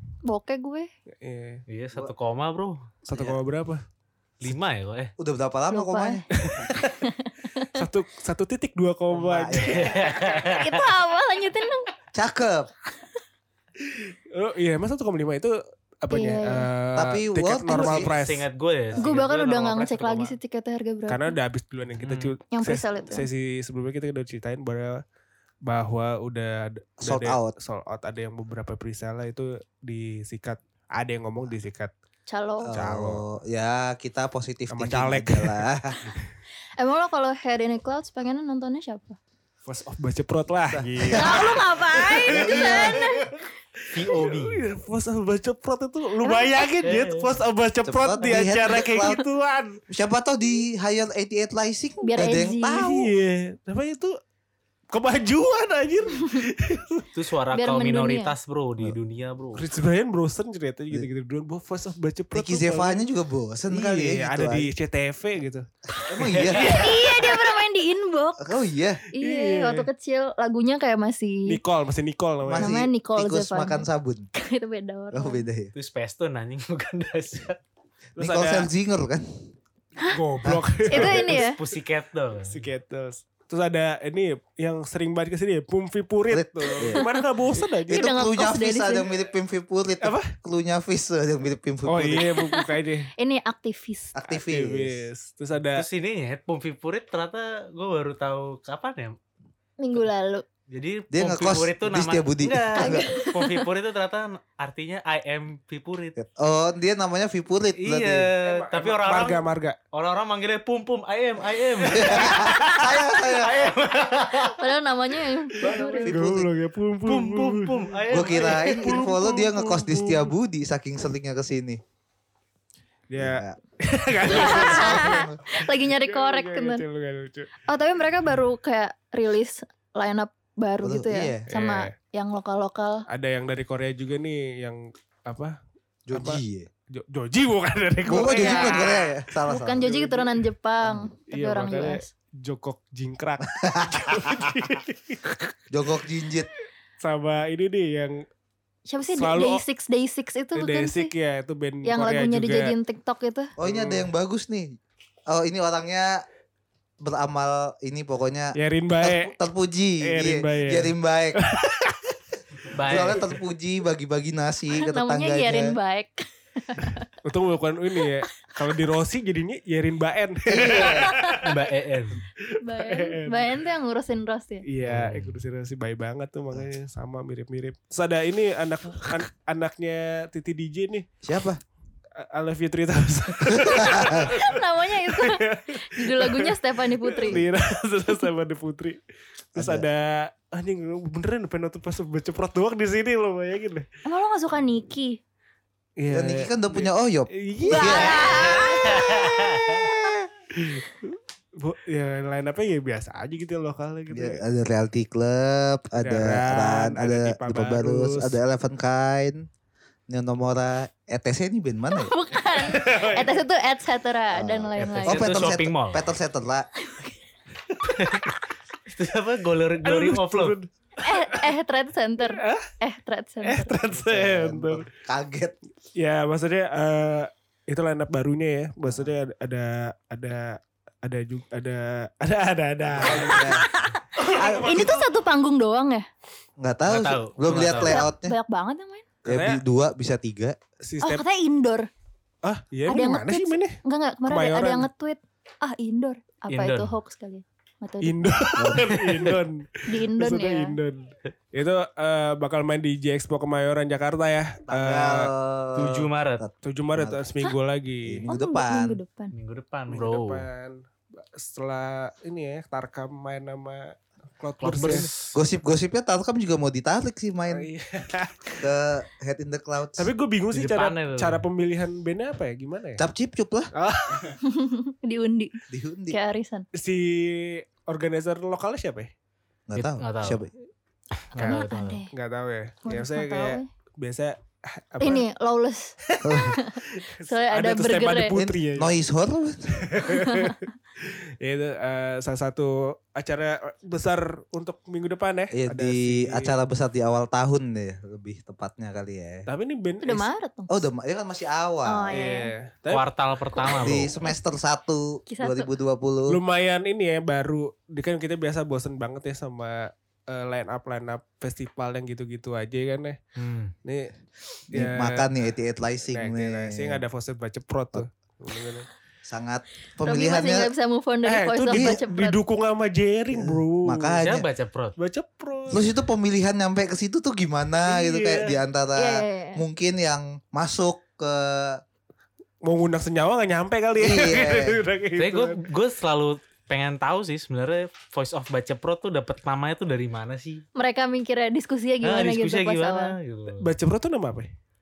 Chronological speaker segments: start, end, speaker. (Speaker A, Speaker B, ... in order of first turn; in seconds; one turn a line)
Speaker A: 0.2-0.9
Speaker B: 1.2-1.6
Speaker C: 1.7-2.9
Speaker B: 3.0-3.8
Speaker D: 3.1-3.4
Speaker C: 4.4-5.1
Speaker D: 5.2-6.8
Speaker A: 5.7-6.2
Speaker B: 6.4-7.0
Speaker A: 7.0-7.7
Speaker B: 7.6-10.3
Speaker D: 9.1-10.2
Speaker C: 9.6-10.8
Speaker A: 10.4-11.9
Speaker D: 12.1-12.7
Speaker B: 13.8-19.1
Speaker A: 16.1-16.7
Speaker D: 16.9-18.1
Speaker C: 17.7-20.4
Speaker A: 19.0-21.3
Speaker B: 21.1-25.0
Speaker C: 22.0-22.3
Speaker A: 22.5-23.3
Speaker B: 25.6-31.9
Speaker D: 27.0-27.5
Speaker A: 32.3-32.7
Speaker D: 32.6-36.0
Speaker B: 32.7-33.2
Speaker B: 34.7-36.2
Speaker A: 36.8-39.2
Speaker B: 39.6-49.8
Speaker D: 40.7-41.6
Speaker A: 41.1-43.3
Speaker D: 42.3-43.0
Speaker C: 43.9-44.6
Speaker A: 46.2-46.5
Speaker C: 46.8-47.2
Speaker D: 47.8-49.2
Speaker D: 49.9-53.1
Speaker A: 52.0-52.8
Speaker B: 52.7-54.2
Speaker B: 54.9-57.1
Speaker C: 57.1-59.7
Speaker A: 57.5-58.3
Speaker B: 59.5-63.0
Speaker D: 62.3-64.7
Speaker B: 63.7-65.7
Speaker D: 66.1-66.9
Speaker C: 66.2-67.3
Speaker A: 66.5-68.4
Speaker D: 68.4-69.0
Speaker A: 69.1-71.6
Speaker B: 69.2-69.9
Speaker B: 71.5-72.8
Speaker D: 72.4-74.3
Speaker A: 72.6-75.5
Speaker D: 75.1-75.7
Speaker C: 75.7-77.6
Speaker B: 78.2-78.7
Speaker D: 78.2-79.3
Speaker B: 80.1-81.5
Speaker D: 80.4-80.8
Speaker A: 80.9-81.6
Speaker C: 81.0-82.7
Speaker B: 82.5-88.1
Speaker D: 86.3-87.0
Speaker A: 86.9-87.2
Speaker A: 87.9-89.1
Speaker D: 87.9-92.3
Speaker B: 90.0-90.3
Speaker B: 91.8-93.1
Speaker A: 92.2-94.1
Speaker D: 94.1-95.1
Speaker B: 94.2-95.8
Speaker C: 95.7-99.2
Speaker A: 99.8-100.4
Speaker C: 100.7-106.2
Speaker D: 101.1-103.1
Speaker A: 102.8-103.6
Speaker D: 106.2-108.3
Speaker C: 107.7-114.6
Speaker B: 108.4-109.8
Speaker D: 111.8-113.7
Speaker A: 114.5-116.2
Speaker B: 115.6-120.3
Speaker D: 115.6-116.5
Speaker C: 117.0-119.0
Speaker D: 118.1-121.8
Speaker B: 123.1-127.5
Speaker D: 123.2-123.6
Speaker D: 124.2-125.4
Speaker A: 124.3-126.8
Speaker A: 127.7-133.0
Speaker D: 130.8-131.4
Speaker B: 131.5-131.9
Speaker B: 133.1-135.6
Speaker D: 136.1-136.7
Speaker B: 136.1-139.1
Speaker D: 138.1-140.0
Speaker A: 138.2-138.9
Speaker A: 139.4-142.1
Speaker B: 139.8-140.3
Speaker D: 140.8-141.1
Speaker B: 141.3-145.5
Speaker D: 143.5-144.5
Speaker D: 145.7-146.5
Speaker B: 147.0-148.2
Speaker A: 148.9-151.1
Speaker B: 149.1-149.6
Speaker B: 150.5-152.7
Speaker A: 151.8-153.5
Speaker D: 153.6-154.7
Speaker B: 153.6-154.1
Speaker D: 155.3-156.2
Speaker D: 157.0-161.4
Speaker B: 158.5-159.3
Speaker B: 160.0-162.0
Speaker C: 162.7-163.3
Speaker D: 162.8-165.8
Speaker A: 164.8-167.1
Speaker B: 167.2-171.6
Speaker D: 170.5-171.1
Speaker A: 170.8-171.4
Speaker C: 171.3-172.2
Speaker A: 172.6-174.6
Speaker B: 172.7-173.6
Speaker B: 174.7-181.1
Speaker C: 174.8-175.4
Speaker D: 181.2-181.6
Speaker B: 182.2-186.5
Speaker D: 183.5-184.2
Speaker A: 184.1-187.4
Speaker B: 187.0-189.0
Speaker B: 189.5-193.9
Speaker D: 189.5-189.8
Speaker A: 194.1-195.2
Speaker B: 196.0-204.4
Speaker D: 196.1-198.3
Speaker A: 197.7-199.1
Speaker C: 198.5-199.9
Speaker D: 204.1-209.4
Speaker B: 206.0-208.4
Speaker D: 210.1-212.1
Speaker A: 211.9-215.5
Speaker B: 212.5-213.4
Speaker D: 214.3-216.7
Speaker C: 214.8-216.1
Speaker A: 216.8-217.1
Speaker C: 217.8-218.3
Speaker C: 218.9-220.6
Speaker B: 219.8-221.4
Speaker A: 221.0-223.7
Speaker B: 222.3-222.7
Speaker B: 223.4-224.8
Speaker D: 223.9-225.6
Speaker B: 225.9-233.6
Speaker D: 228.8-229.1
Speaker D: 232.9-233.7
Speaker A: 233.3-236.1
Speaker B: 234.1-235.1
Speaker D: 236.6-238.3
Speaker C: 236.9-238.1
Speaker A: 237.8-239.1
Speaker D: 239.2-240.6
Speaker B: 239.2-239.6
Speaker B: 240.8-241.2
Speaker A: 241.0-241.9
Speaker B: 242.4-244.9
Speaker A: 242.9-248.2
Speaker C: 246.5-246.9
Speaker B: 248.0-255.3
Speaker D: 248.6-248.9
Speaker C: 249.0-249.3
Speaker A: 249.9-250.8
Speaker D: 254.7-257.2
Speaker C: 255.8-256.4
Speaker B: 256.6-258.2
Speaker D: 258.0-259.0
Speaker A: 258.3-259.3
Speaker C: 259.3-260.4
Speaker B: 259.9-265.1
Speaker C: 264.6-265.4
Speaker D: 265.3-267.7
Speaker B: 267.5-268.7
Speaker D: 268.6-270.1
Speaker B: 270.0-273.0
Speaker C: 270.5-271.4
Speaker D: 273.0-273.7
Speaker B: 273.7-274.4
Speaker A: 274.4-275.5
Speaker D: 275.7-276.2
Speaker A: 276.1-276.6
Speaker B: 276.7-279.1
Speaker D: 279.7-280.5
Speaker C: 279.7-280.5
Speaker C: 281.2-282.0
Speaker B: 281.4-285.2
Speaker A: 281.4-282.1
Speaker A: 282.8-283.7
Speaker A: 285.0-288.4
Speaker B: 286.1-288.9
Speaker D: 286.2-286.6
Speaker D: 288.3-289.9
Speaker B: 289.7-296.5
Speaker A: 290.1-290.6
Speaker D: 295.5-299.5
Speaker B: 299.5-300.3
Speaker A: 300.0-300.8
Speaker D: 300.7-302.3
Speaker A: 301.8-302.5
Speaker B: 302.1-303.1
Speaker C: 302.9-304.1
Speaker D: 303.8-306.4
Speaker A: 305.3-305.7
Speaker B: 306.3-313.2
Speaker C: 313.4-313.7
Speaker B: 313.8-314.1
Speaker B: 314.7-315.3
Speaker D: 314.7-317.0
Speaker B: 316.1-318.9
Speaker D: 319.2-320.7
Speaker A: 320.0-322.4
Speaker B: 321.2-324.2
Speaker D: 321.7-322.0
Speaker D: 323.3-324.5
Speaker C: 324.2-324.9
Speaker B: 325.0-325.9
Speaker D: 325.7-331.8
Speaker B: 327.8-328.6
Speaker A: 328.9-329.6
Speaker B: 332.6-335.6
Speaker D: 334.0-334.8
Speaker C: 335.2-340.6
Speaker A: 340.7-343.1
Speaker C: 342.0-343.7
Speaker B: 343.6-344.5